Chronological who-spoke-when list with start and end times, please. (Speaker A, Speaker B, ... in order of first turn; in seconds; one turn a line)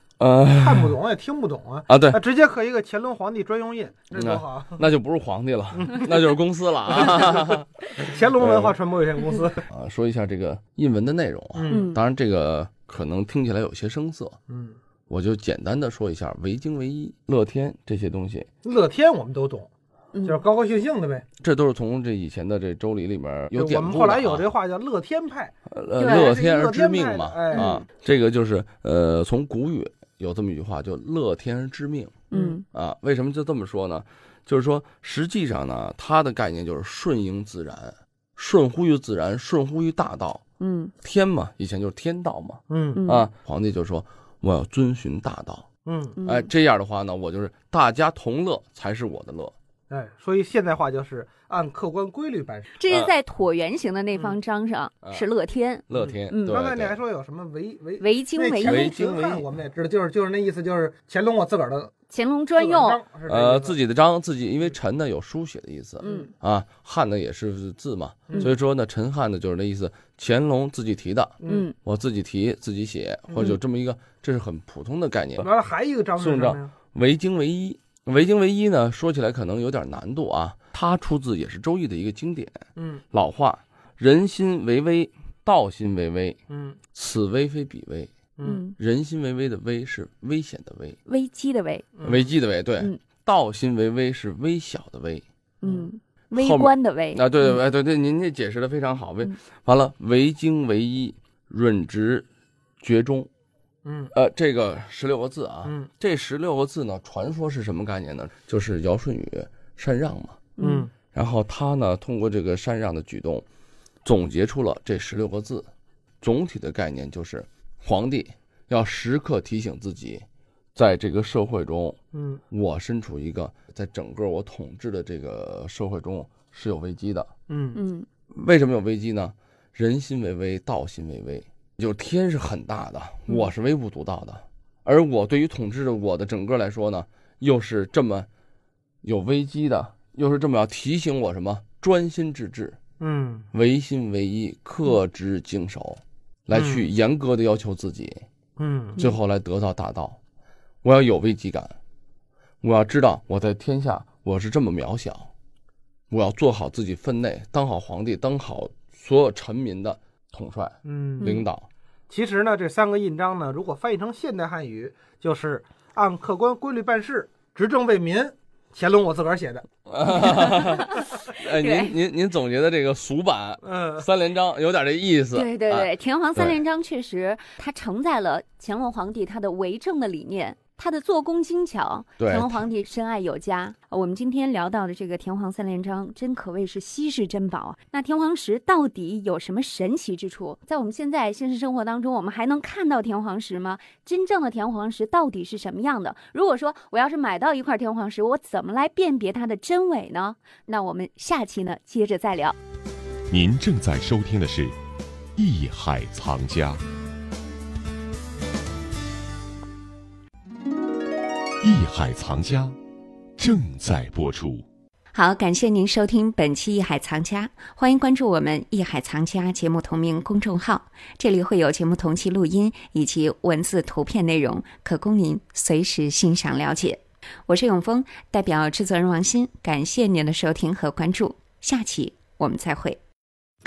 Speaker A: 0.2-0.9
Speaker B: 0.5-4.8
Speaker A: 1.9-2.2
Speaker A: 4.1-7.8
Speaker B: 5.8-6.1
Speaker B: 7.9-9.6
Speaker A: 8.4-8.8
Speaker A: 9.7-14.4
Speaker B: 11.6-11.9
Speaker C: 11.7-12.0
Speaker B: 14.5-14.8
Speaker A: 15.1-18.5
Speaker B: 18.6-19.7
Speaker C: 20.1-20.4
Speaker B: 20.2-21.2
Speaker A: 21.4-24.4
Speaker B: 23.5-27.8
Speaker A: 25.7-40.4
Speaker C: 26.0-26.3
Speaker C: 27.5-27.8
Speaker C: 32.3-32.6
Speaker C: 40.6-40.9
Speaker A: 41.0-45.7
Speaker B: 42.7-43.0
Speaker C: 42.9-43.3
Speaker B: 45.9-46.2
Speaker C: 46.2-46.5
Speaker A: 46.2-49.5
Speaker B: 49.9-52.8
Speaker C: 52.8-56.6
Speaker A: 55.9-57.0
Speaker B: 55.9-61.9
Speaker C: 58.0-58.9
Speaker A: 58.6-59.5
Speaker C: 62.1-63.0
Speaker B: 62.6-63.8
Speaker A: 63.3-75.5
Speaker C: 66.0-66.3
Speaker B: 71.4-71.7
Speaker C: 71.5-71.8
Speaker B: 75.4-76.7
Speaker A: 76.2-86.4
Speaker B: 82.8-83.0
Speaker B: 86.5-86.8
Speaker A: 86.9-88.1
Speaker C: 88.4-88.8
Speaker A: 88.8-91.0
Speaker C: 91.1-92.0
Speaker B: 92.0-92.3
Speaker A: 92.0-95.2
Speaker C: 95.6-97.3
Speaker A: 96.3-102.3
Speaker A: 102.8-103.3
Speaker B: 103.8-104.1
Speaker A: 104.1-110.4
Speaker C: 110.6-110.9
Speaker B: 110.6-110.9
Speaker A: 111.1-113.5
Speaker A: 114.0-115.7
Speaker A: 116.2-120.2
Speaker A: 120.8-122.0
Speaker B: 122.1-122.4
Speaker A: 122.5-127.3
Speaker B: 127.5-127.8
Speaker C: 127.8-128.1
Speaker A: 128.3-138.3
Speaker A: 139.0-142.8
Speaker B: 143.0-143.5
Speaker A: 143.5-148.2
Speaker B: 146.5-146.8
Speaker B: 148.6-149.0
Speaker A: 149.0-150.2
Speaker A: 150.8-151.8
Speaker A: 152.6-155.3
Speaker A: 156.1-161.7
Speaker B: 160.8-161.4
Speaker C: 161.2-161.4
Speaker B: 162.1-169.7
Speaker A: 169.9-176.6
Speaker C: 170.3-171.9
Speaker B: 173.7-174.1
Speaker C: 175.3-202.6
Speaker A: 182.2-182.7
Speaker D: 203.3-204.8
Speaker D: 205.4-206.8
Speaker D: 211.6-212.8
Speaker D: 213.4-214.7
Speaker E: 215.1-233.0